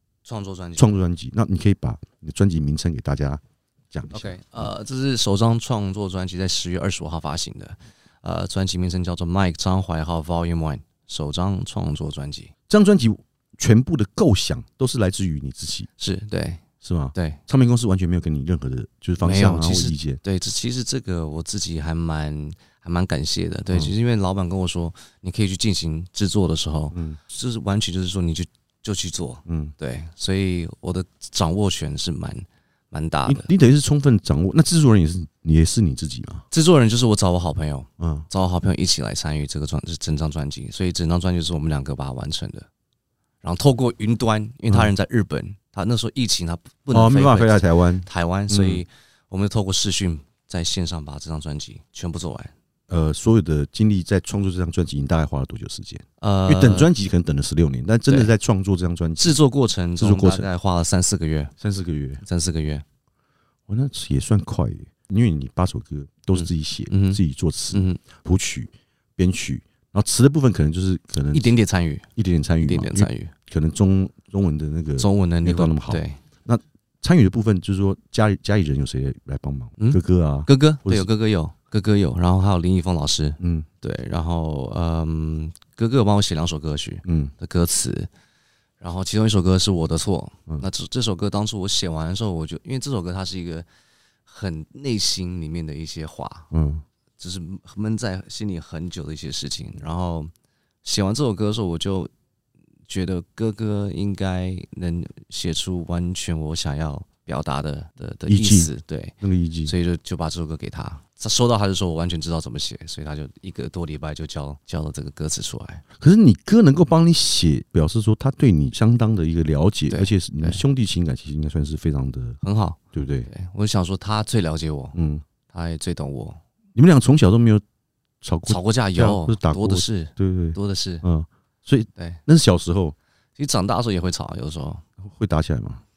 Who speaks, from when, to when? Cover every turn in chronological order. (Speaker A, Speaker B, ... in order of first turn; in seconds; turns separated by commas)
Speaker A: 0.2-0.9, Speaker B: 0.8-3.4, Speaker B: 3.9-4.3, Speaker A: 4.1-12.5, Speaker B: 12.7-15.9, Speaker A: 16.0-16.6, Speaker B: 16.8-20.2, Speaker A: 17.1-17.4, Speaker A: 19.2-33.5, Speaker B: 26.9-27.2, Speaker B: 29.5-29.7, Speaker B: 33.2-36.4, Speaker A: 36.5-42.7, Speaker B: 38.0-38.2, Speaker A: 43.4-52.5, Speaker B: 46.9-48.8, Speaker B: 52.9-59.3, Speaker A: 56.2-56.9, Speaker A: 59.2-61.5, Speaker B: 60.0-60.5, Speaker B: 61.6-62.2, Speaker A: 62.2-62.8, Speaker B: 63.7-71.5, Speaker A: 66.3-67.2, Speaker A: 67.7-68.0, Speaker A: 71.3-72.0, Speaker B: 72.2-81.1, Speaker A: 72.6-73.3, Speaker A: 75.0-76.2, Speaker A: 79.8-88.1, Speaker B: 83.4-83.7, Speaker B: 87.0-87.3, Speaker A: 88.8-93.7, Speaker A: 94.2-96.5, Speaker B: 96.5-96.8, Speaker A: 97.2-100.3, Speaker A: 100.8-102.1, Speaker A: 102.9-109.1, Speaker B: 108.3-108.7, Speaker B: 109.2-109.7, Speaker A: 109.7-115.8, Speaker B: 116.0-122.4, Speaker A: 119.9-120.6, Speaker A: 122.4-125.0, Speaker B: 122.9-123.3, Speaker B: 124.9-125.2, Speaker A: 125.5-126.4, Speaker B: 126.7-127.6, Speaker B: 128.2-132.9, Speaker A: 128.4-131.0, Speaker A: 133.4-134.8, Speaker B: 135.0-135.8